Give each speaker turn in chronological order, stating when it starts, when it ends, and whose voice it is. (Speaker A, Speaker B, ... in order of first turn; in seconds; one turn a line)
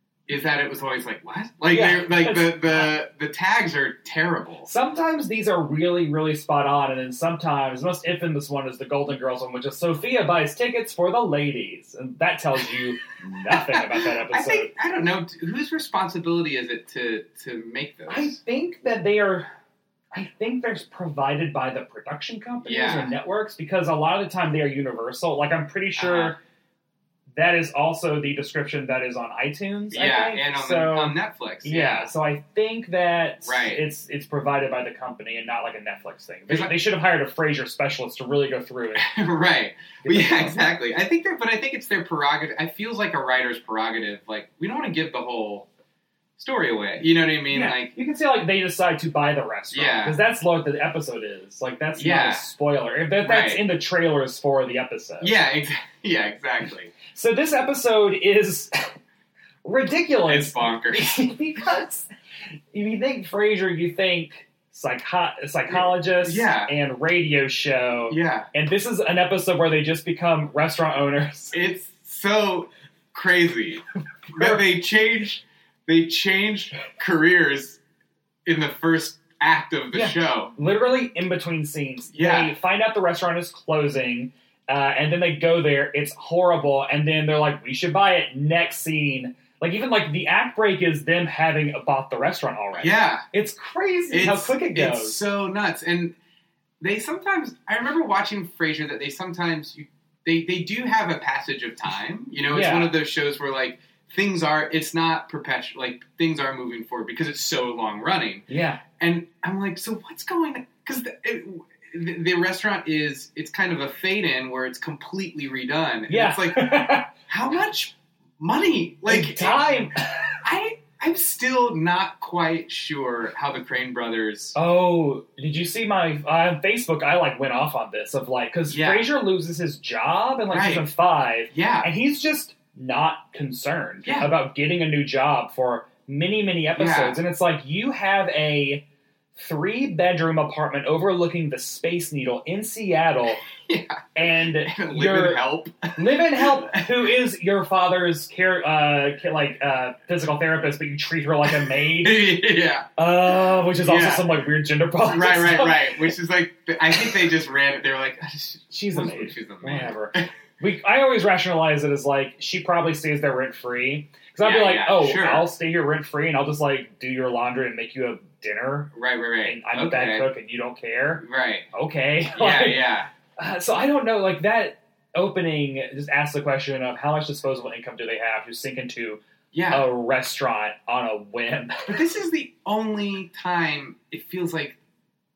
Speaker A: 0.3-4.7
Speaker B: 1.7-2.9
Speaker B: 4.7-14.7
Speaker A: 13.5-18.4
Speaker B: 18.1-19.5
Speaker B: 20.1-26.4
Speaker A: 22.6-23.1
Speaker A: 26.0-26.4
Speaker B: 27.4-39.0
Speaker A: 29.9-32.1
Speaker A: 33.5-33.8
Speaker A: 36.5-36.8
Speaker A: 39.0-45.7
Speaker B: 40.0-40.6
Speaker A: 46.4-47.9
Speaker B: 47.5-55.4
Speaker A: 49.7-50.2
Speaker A: 52.0-52.5
Speaker A: 53.2-53.7
Speaker A: 55.2-56.9
Speaker B: 57.1-58.9
Speaker B: 59.6-62.1
Speaker A: 60.3-61.3
Speaker B: 62.7-71.5
Speaker A: 65.7-66.7
Speaker A: 68.1-68.5
Speaker A: 71.5-77.8
Speaker A: 78.5-80.5
Speaker B: 79.9-95.2
Speaker A: 82.1-82.5
Speaker A: 92.8-93.3
Speaker A: 94.1-96.2
Speaker A: 96.8-108.5
Speaker B: 102.5-103.0
Speaker B: 108.5-108.8
Speaker A: 109.0-124.5
Speaker B: 116.1-117.1
Speaker B: 119.1-119.9
Speaker B: 124.5-138.8
Speaker A: 128.7-129.1
Speaker A: 130.5-130.9
Speaker A: 131.5-131.9
Speaker A: 134.0-134.3
Speaker A: 136.8-137.2
Speaker B: 139.3-143.4
Speaker A: 143.7-146.9
Speaker B: 144.2-152.3
Speaker A: 151.8-152.9
Speaker B: 153.0-155.9
Speaker A: 153.8-154.4
Speaker A: 155.0-160.3
Speaker B: 158.7-181.9
Speaker A: 164.4-165.5
Speaker A: 168.9-170.3
Speaker A: 171.2-171.7
Speaker A: 172.3-173.1
Speaker A: 179.5-179.9
Speaker A: 181.9-184.8